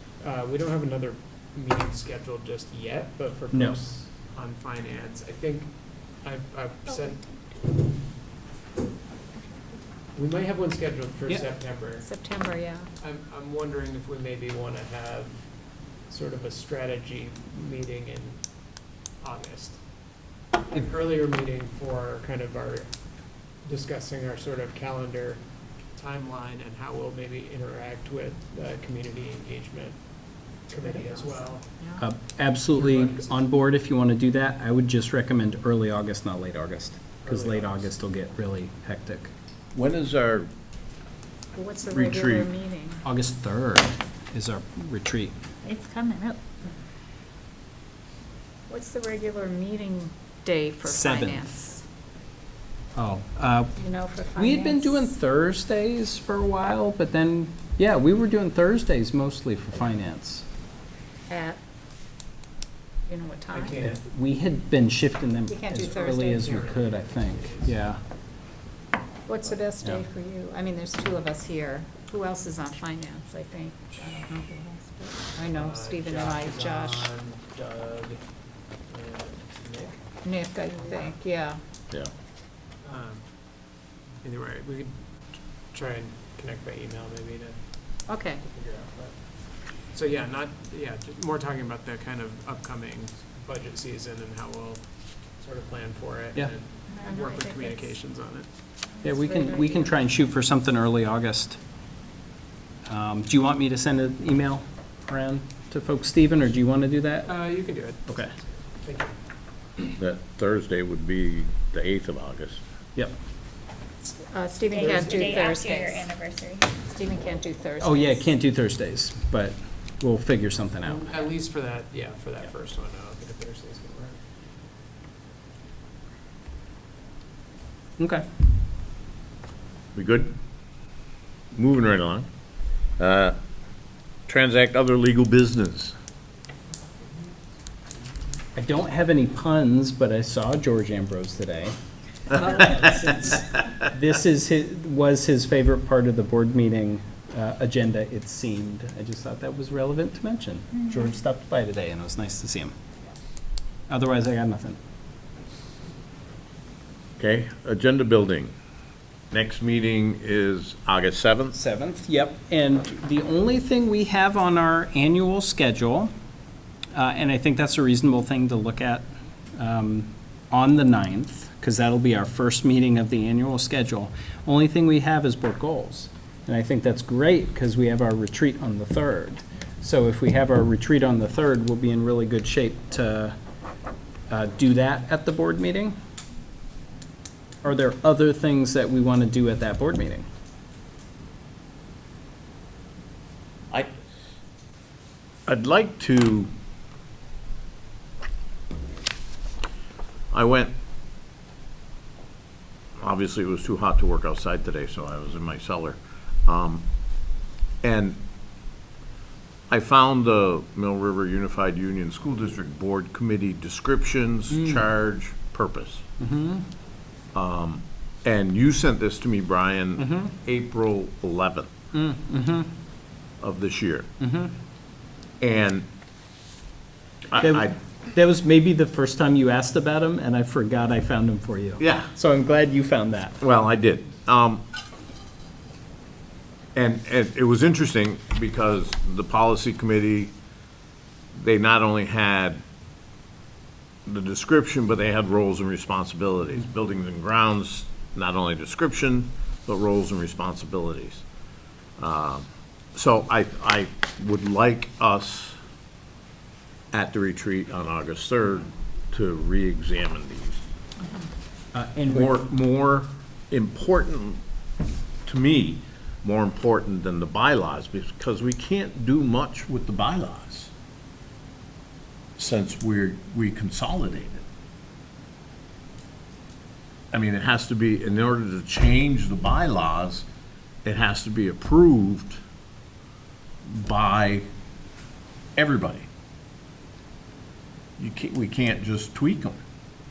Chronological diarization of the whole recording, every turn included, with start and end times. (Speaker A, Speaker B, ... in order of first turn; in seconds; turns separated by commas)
Speaker A: 0.2-5.7, Speaker B: 3.5-3.8, Speaker A: 6.2-7.2, Speaker A: 10.1-12.1, Speaker C: 12.0-12.9, Speaker A: 13.0-15.3, Speaker A: 16.1-18.4, Speaker A: 19.2-19.8, Speaker A: 20.7-22.9, Speaker A: 23.6-25.4, Speaker A: 25.9-30.0, Speaker A: 30.7-31.6, Speaker C: 30.8-32.0, Speaker B: 32.0-39.3, Speaker A: 32.7-33.4, Speaker A: 37.2-37.9, Speaker D: 39.7-40.5, Speaker C: 41.5-43.0, Speaker D: 41.9-42.5, Speaker B: 43.0-45.4, Speaker C: 45.6-46.4, Speaker C: 48.7-51.8, Speaker B: 50.8-51.6, Speaker B: 52.9-53.7, Speaker C: 53.8-55.1, Speaker B: 54.4-60.5, Speaker C: 61.3-61.6, Speaker C: 63.1-63.8, Speaker A: 63.5-64.0, Speaker B: 63.8-68.0, Speaker C: 65.5-66.5, Speaker A: 65.8-67.8, Speaker C: 69.2-77.1, Speaker A: 75.5-78.2, Speaker A: 78.9-80.0, Speaker C: 80.2-81.6, Speaker A: 80.8-81.1, Speaker A: 82.8-83.2, Speaker A: 84.2-84.9, Speaker A: 85.7-87.6, Speaker C: 88.1-88.4, Speaker A: 88.4-89.1, Speaker A: 89.9-94.8, Speaker A: 95.4-98.5, Speaker C: 96.9-97.9, Speaker C: 99.0-100.0, Speaker B: 99.0-101.6, Speaker B: 102.8-107.4, Speaker A: 107.3-108.2, Speaker B: 108.0-108.3, Speaker A: 108.8-109.2, Speaker D: 110.0-112.6, Speaker C: 114.0-116.1, Speaker E: 114.7-116.8, Speaker A: 114.7-115.5, Speaker C: 116.8-118.3, Speaker B: 117.8-121.2, Speaker A: 120.8-124.2, Speaker B: 128.0-128.2, Speaker D: 129.9-130.3, Speaker D: 131.5-132.3, Speaker D: 133.0-133.4, Speaker D: 134.3-135.9, Speaker B: 138.5-141.7, Speaker B: 142.3-152.7, Speaker B: 153.9-154.8, Speaker D: 157.2-158.5, Speaker D: 159.3-161.6, Speaker B: 161.5-166.1, Speaker B: 166.9-183.3, Speaker B: 184.3-186.0, Speaker B: 187.6-190.3, Speaker D: 195.4-196.5, Speaker D: 200.3-200.7, Speaker D: 203.0-206.8, Speaker D: 207.8-208.2, Speaker D: 209.7-216.0, Speaker B: 214.5-214.9, Speaker B: 216.2-216.7, Speaker D: 217.3-221.7, Speaker B: 220.0-220.3, Speaker B: 221.9-222.7, Speaker D: 223.4-224.1, Speaker B: 224.2-224.5, Speaker D: 225.4-225.9, Speaker D: 227.3-227.7, Speaker B: 227.4-233.4, Speaker D: 231.8-232.1, Speaker D: 233.4-234.6, Speaker D: 236.7-240.3, Speaker D: 241.3-242.6, Speaker D: 244.1-251.2, Speaker D: 252.0-255.6, Speaker D: 256.9-260.6, Speaker B: 261.7-262.5, Speaker D: 262.1-264.4, Speaker D: 265.2-270.7, Speaker D: 272.4-274.4, Speaker D: 277.1-280.2, Speaker D: 280.8-282.4, Speaker D: 283.6-284.5, Speaker D: 285.6-286.1, Speaker D: 288.0-289.6